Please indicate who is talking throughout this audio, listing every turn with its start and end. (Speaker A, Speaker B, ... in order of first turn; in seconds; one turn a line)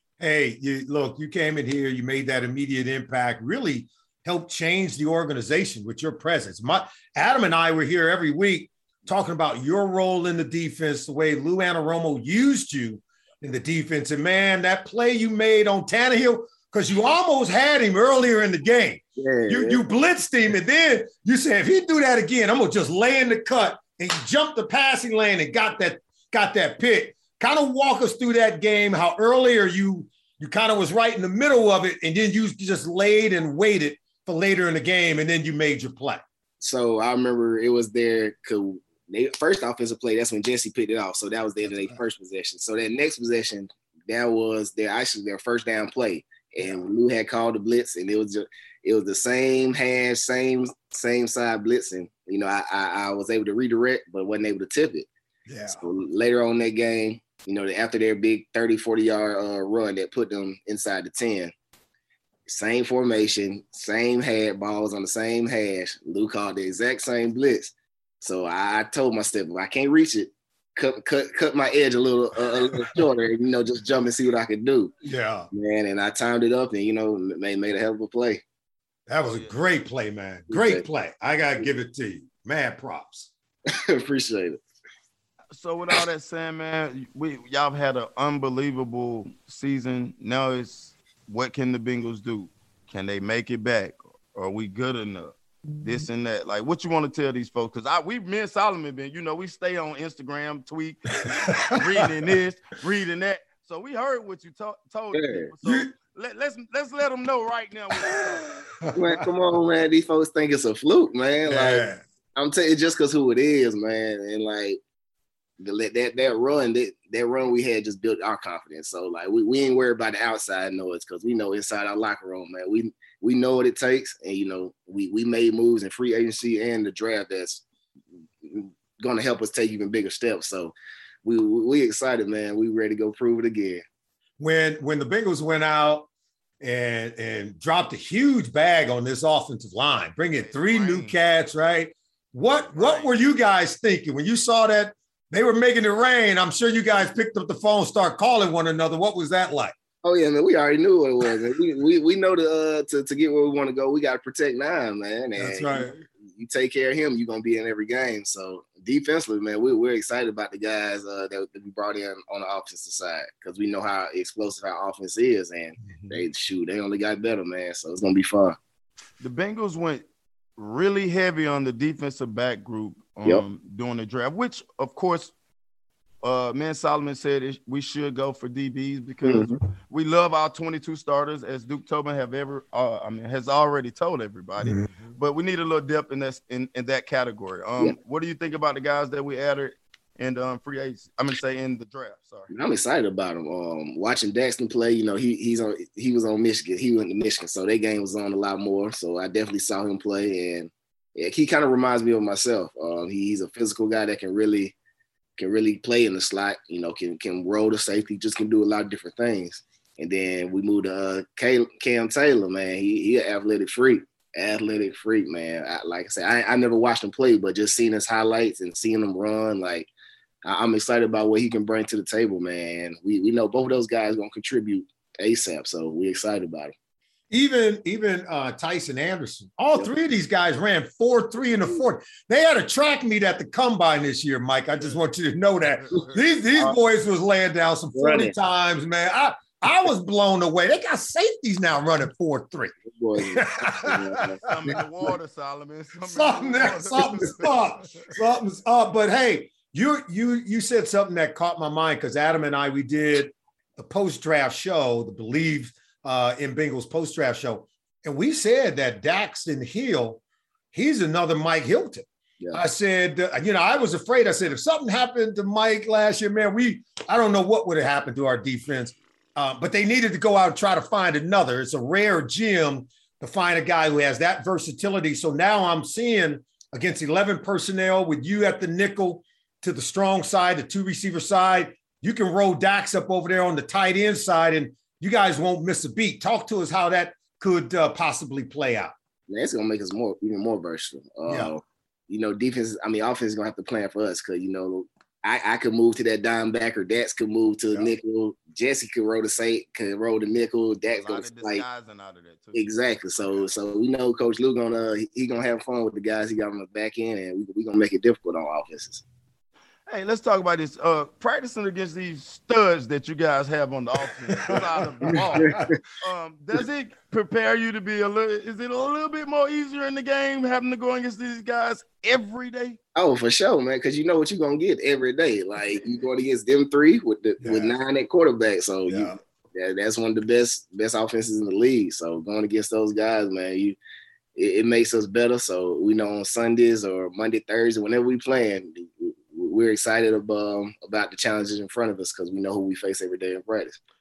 Speaker A: 0.2-36.2
Speaker B: 19.2-19.9
Speaker B: 36.6-55.1
Speaker A: 41.6-42.0
Speaker A: 46.6-46.9
Speaker A: 55.5-55.8
Speaker B: 55.7-61.5
Speaker B: 62.5-74.9
Speaker A: 72.5-73.1
Speaker A: 75.0-75.5
Speaker B: 75.5-78.4
Speaker A: 79.1-83.3
Speaker C: 79.2-79.5
Speaker B: 80.5-80.8
Speaker B: 83.9-84.6
Speaker C: 85.5-108.6
Speaker A: 101.2-101.6
Speaker B: 105.1-105.5
Speaker A: 105.6-105.9
Speaker A: 108.0-109.2
Speaker B: 108.9-114.8
Speaker A: 111.5-112.0
Speaker B: 115.6-127.6
Speaker B: 128.4-133.8
Speaker A: 134.4-136.1
Speaker A: 136.6-149.7
Speaker C: 140.3-141.2
Speaker C: 142.7-143.2
Speaker B: 150.0-168.6
Speaker A: 155.3-156.0
Speaker C: 169.2-170.1
Speaker C: 170.6-175.3
Speaker C: 176.2-192.5
Speaker B: 179.2-179.6
Speaker A: 184.6-185.1
Speaker B: 192.5-204.8
Speaker B: 205.4-219.9
Speaker B: 220.4-226.7
Speaker A: 227.3-242.7
Speaker C: 234.7-235.1
Speaker C: 235.7-236.3
Speaker B: 237.9-238.3
Speaker B: 242.9-244.4
Speaker A: 243.3-244.2
Speaker C: 244.4-247.7
Speaker A: 246.0-260.2
Speaker A: 260.7-288.9
Speaker B: 289.3-301.6
Speaker A: 291.2-291.5
Speaker C: 300.9-303.4
Speaker B: 302.5-309.0
Speaker C: 309.9-322.8
Speaker A: 314.4-315.6
Speaker B: 315.1-315.7
Speaker B: 322.9-333.8
Speaker A: 327.4-327.7
Speaker A: 328.9-329.2
Speaker B: 334.3-343.8